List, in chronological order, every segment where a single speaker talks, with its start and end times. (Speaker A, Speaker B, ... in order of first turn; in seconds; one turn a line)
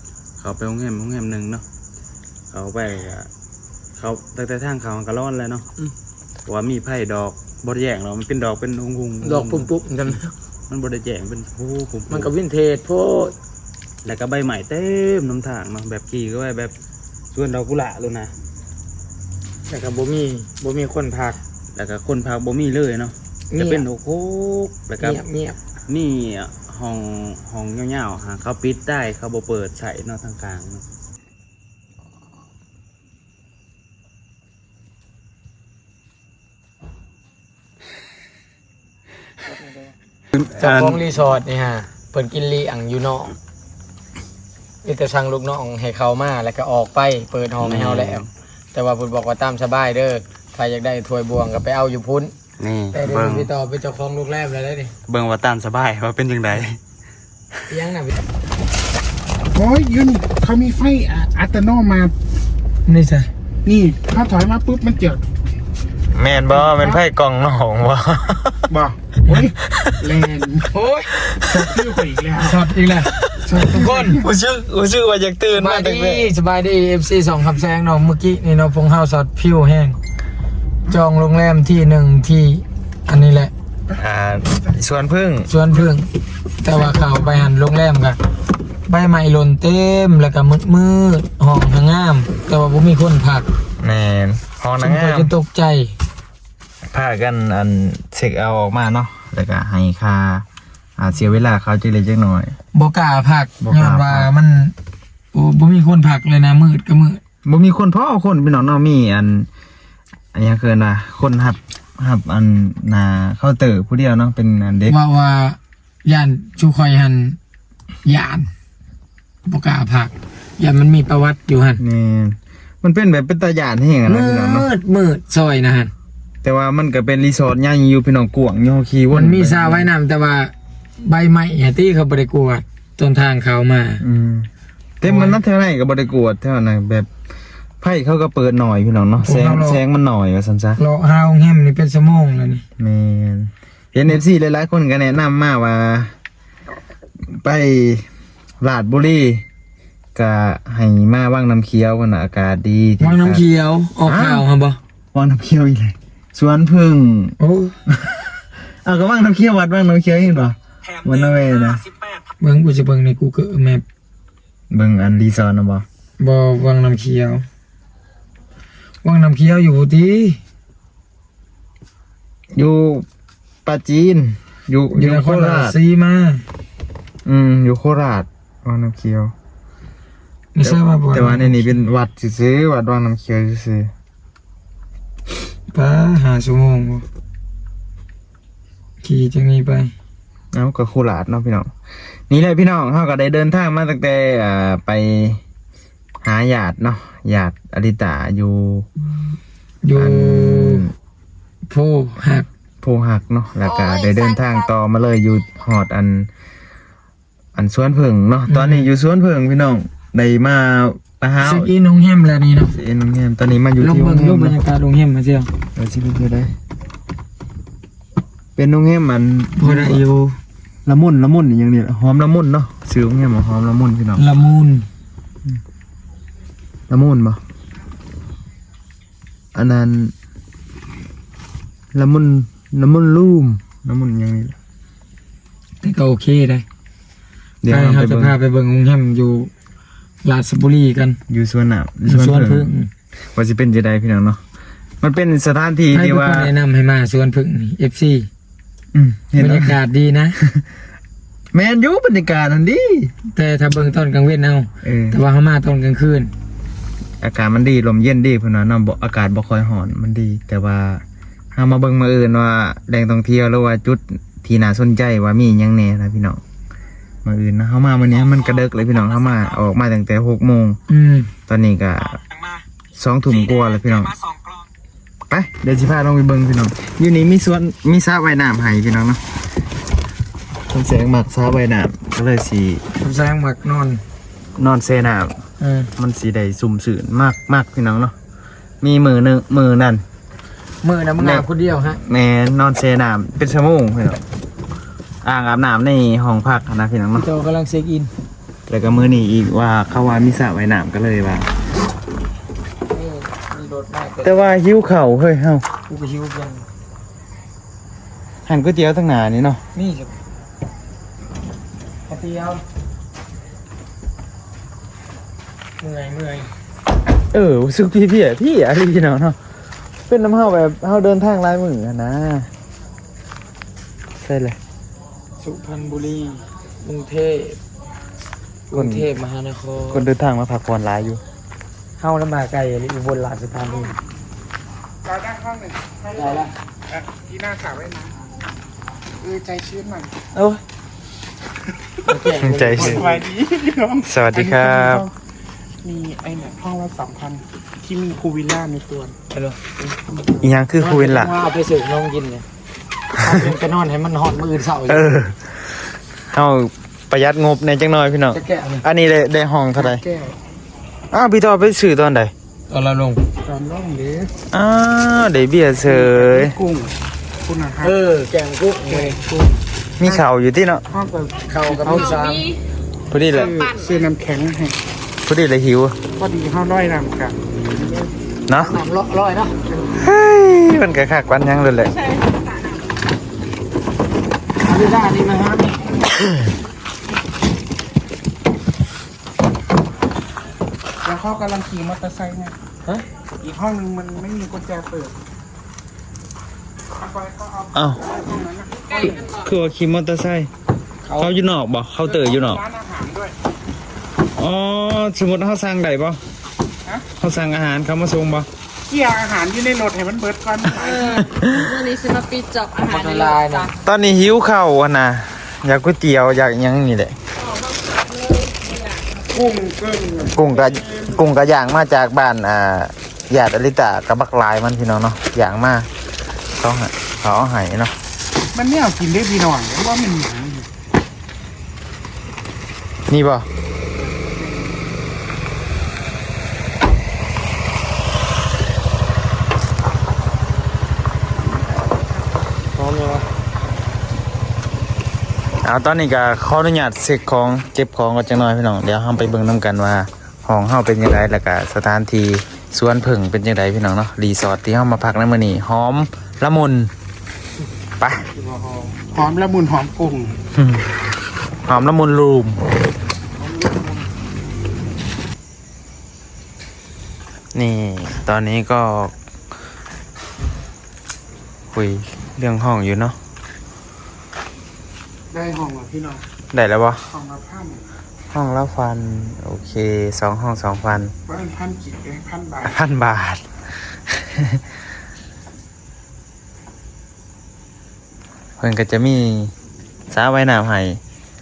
Speaker A: 0.4-1.6
Speaker A: 2.5-3.3
Speaker A: 4.0-5.7
Speaker A: 6.5-9.7
Speaker B: 9.2-10.3
Speaker A: 10.7-12.3
Speaker B: 12.1-13.3
Speaker A: 14.1-16.7
Speaker A: 17.3-18.3
Speaker B: 19.7-21.4
Speaker A: 21.8-25.2
Speaker B: 23.5-23.9
Speaker B: 25.0-25.6
Speaker A: 25.9-30.8
Speaker B: 39.5-39.8
Speaker A: 40.3-41.0
Speaker B: 40.6-43.4
Speaker B: 44.8-48.2
Speaker A: 47.6-48.3
Speaker B: 48.7-52.3
Speaker A: 52.6-53.5
Speaker B: 52.9-54.9
Speaker A: 55.1-56.8
Speaker B: 57.7-58.1
Speaker C: 59.5-62.1
Speaker B: 62.9-63.3
Speaker C: 63.6-65.2
Speaker D: 66.1-68.6
Speaker C: 68.7-70.7
Speaker D: 69.7-70.0
Speaker B: 70.7-71.1
Speaker D: 71.3-71.8
Speaker C: 71.5-72.7
Speaker B: 72.4-74.2
Speaker C: 73.4-74.2
Speaker D: 74.2-76.3
Speaker B: 75.5-80.0
Speaker B: 80.9-83.5
Speaker D: 84.0-85.5
Speaker B: 85.5-86.1
Speaker B: 86.6-88.2
Speaker B: 88.9-93.5
Speaker D: 93.8-95.3
Speaker B: 94.8-96.0
Speaker D: 96.9-100.5
Speaker D: 101.0-102.5
Speaker B: 102.8-104.8
Speaker D: 103.6-104.3
Speaker B: 105.3-107.2
Speaker D: 107.5-109.5
Speaker D: 110.3-115.0
Speaker B: 114.9-117.4
Speaker B: 118.0-118.5
Speaker B: 119.5-121.8
Speaker D: 121.8-124.7
Speaker B: 124.1-125.9
Speaker D: 126.4-129.9
Speaker B: 129.1-134.0
Speaker D: 134.0-134.5
Speaker D: 135.0-137.1
Speaker B: 135.0-135.4
Speaker D: 137.8-140.8
Speaker B: 139.2-139.8
Speaker B: 140.8-142.7
Speaker D: 142.8-146.2
Speaker D: 147.3-148.1
Speaker D: 148.6-149.4
Speaker D: 150.2-153.4
Speaker B: 153.0-154.8
Speaker D: 154.0-154.4
Speaker D: 155.1-157.4
Speaker B: 157.4-157.8
Speaker D: 157.9-161.9
Speaker B: 162.4-163.8
Speaker D: 164.7-165.9
Speaker B: 166.2-167.4
Speaker B: 169.0-170.4
Speaker D: 172.5-173.1
Speaker D: 173.7-175.8
Speaker B: 174.9-176.4
Speaker D: 177.3-179.3
Speaker B: 180.6-181.8
Speaker D: 180.6-183.9
Speaker B: 185.7-187.1
Speaker B: 189.0-189.9
Speaker D: 190.5-191.7
Speaker D: 192.3-195.4
Speaker D: 196.2-198.9
Speaker B: 199.8-200.9
Speaker D: 199.9-200.9
Speaker B: 201.7-202.5
Speaker D: 202.8-206.3
Speaker E: 203.6-204.7
Speaker D: 207.6-211.7
Speaker B: 208.5-208.9
Speaker B: 211.4-212.7
Speaker D: 212.7-214.6
Speaker B: 213.8-215.5
Speaker D: 215.8-216.5
Speaker D: 218.6-220.1
Speaker B: 219.6-220.4
Speaker D: 220.9-224.2
Speaker B: 224.2-224.9
Speaker D: 226.9-227.4
Speaker D: 229.6-230.1
Speaker D: 231.9-234.6
Speaker B: 235.8-236.7
Speaker D: 237.6-238.4
Speaker B: 237.7-239.5
Speaker B: 240.2-241.2
Speaker D: 241.3-242.7
Speaker B: 242.1-242.9
Speaker D: 243.3-244.4
Speaker D: 245.0-246.5
Speaker B: 245.9-248.3
Speaker D: 248.9-249.8
Speaker B: 249.4-250.4
Speaker D: 251.5-253.1
Speaker B: 253.3-256.3
Speaker D: 254.8-255.2
Speaker D: 257.2-261.0
Speaker D: 261.5-266.4
Speaker D: 267.2-270.8
Speaker B: 270.9-271.3
Speaker D: 271.5-272.2
Speaker D: 272.9-274.2
Speaker D: 275.3-279.2
Speaker D: 280.7-282.8
Speaker B: 283.0-284.0
Speaker D: 284.6-285.4
Speaker B: 285.6-285.9
Speaker D: 286.0-288.1
Speaker D: 288.8-290.0
Speaker B: 290.8-292.0
Speaker D: 291.2-294.2
Speaker D: 295.2-297.3
Speaker B: 297.1-298.1
Speaker D: 298.7-301.5
Speaker B: 302.9-304.5
Speaker D: 304.2-305.6
Speaker B: 305.9-306.7
Speaker D: 308.5-309.6
Speaker B: 309.8-310.2
Speaker B: 312.1-312.6
Speaker B: 315.8-316.5
Speaker D: 317.3-319.4
Speaker D: 320.1-322.5
Speaker D: 324.2-324.6
Speaker B: 325.4-327.6
Speaker B: 328.7-330.1
Speaker D: 328.7-329.1
Speaker D: 329.9-331.2
Speaker B: 332.0-333.9
Speaker C: 335.0-338.1
Speaker B: 336.1-336.5
Speaker C: 339.2-340.2
Speaker D: 340.3-340.6
Speaker B: 342.1-343.1
Speaker D: 342.4-343.1
Speaker C: 342.7-345.1
Speaker D: 344.1-345.1
Speaker C: 345.8-349.2
Speaker B: 349.3-349.8
Speaker D: 350.4-351.3
Speaker B: 350.8-352.4
Speaker B: 353.1-355.1
Speaker D: 354.9-360.0
Speaker B: 358.3-358.8
Speaker C: 359.8-360.3
Speaker D: 361.1-362.3
Speaker B: 362.7-363.2
Speaker C: 363.4-364.3
Speaker D: 364.5-366.6
Speaker C: 365.8-368.0
Speaker B: 367.8-369.4
Speaker C: 368.9-369.2
Speaker D: 370.0-370.8
Speaker C: 370.9-372.2
Speaker B: 371.5-372.4
Speaker E: 371.9-372.6
Speaker D: 373.1-373.6
Speaker C: 373.3-374.8
Speaker E: 373.4-374.0
Speaker D: 375.2-376.0
Speaker C: 376.1-378.1
Speaker D: 378.5-378.7
Speaker B: 378.6-379.7
Speaker D: 379.9-381.9
Speaker E: 381.8-382.8
Speaker B: 384.6-385.9
Speaker C: 391.0-392.6
Speaker C: 393.4-395.1
Speaker C: 397.0-399.4
Speaker D: 397.8-398.0
Speaker E: 398.7-399.5
Speaker D: 399.0-400.5
Speaker B: 401.0-401.4
Speaker D: 401.2-402.6
Speaker C: 402.0-403.3
Speaker D: 404.2-406.2
Speaker D: 407.2-408.5
Speaker C: 408.9-411.1
Speaker E: 410.8-413.8
Speaker D: 411.3-411.7
Speaker B: 412.8-413.7
Speaker D: 413.8-417.2
Speaker E: 417.4-419.2
Speaker C: 419.2-421.2
Speaker D: 420.4-425.9
Speaker D: 426.6-427.9
Speaker C: 428.6-430.7
Speaker D: 433.1-433.5
Speaker B: 442.7-443.3
Speaker D: 445.6-456.9
Speaker D: 458.0-458.3
Speaker B: 458.6-458.9
Speaker C: 459.0-460.4
Speaker D: 460.6-461.0
Speaker D: 461.6-462.6
Speaker D: 467.5-469.1
Speaker D: 471.7-473.2
Speaker C: 475.3-476.2
Speaker D: 476.5-477.1
Speaker C: 477.1-478.0
Speaker D: 478.3-481.1
Speaker C: 481.3-482.8
Speaker D: 482.6-484.6
Speaker D: 488.6-489.5
Speaker D: 490.1-491.0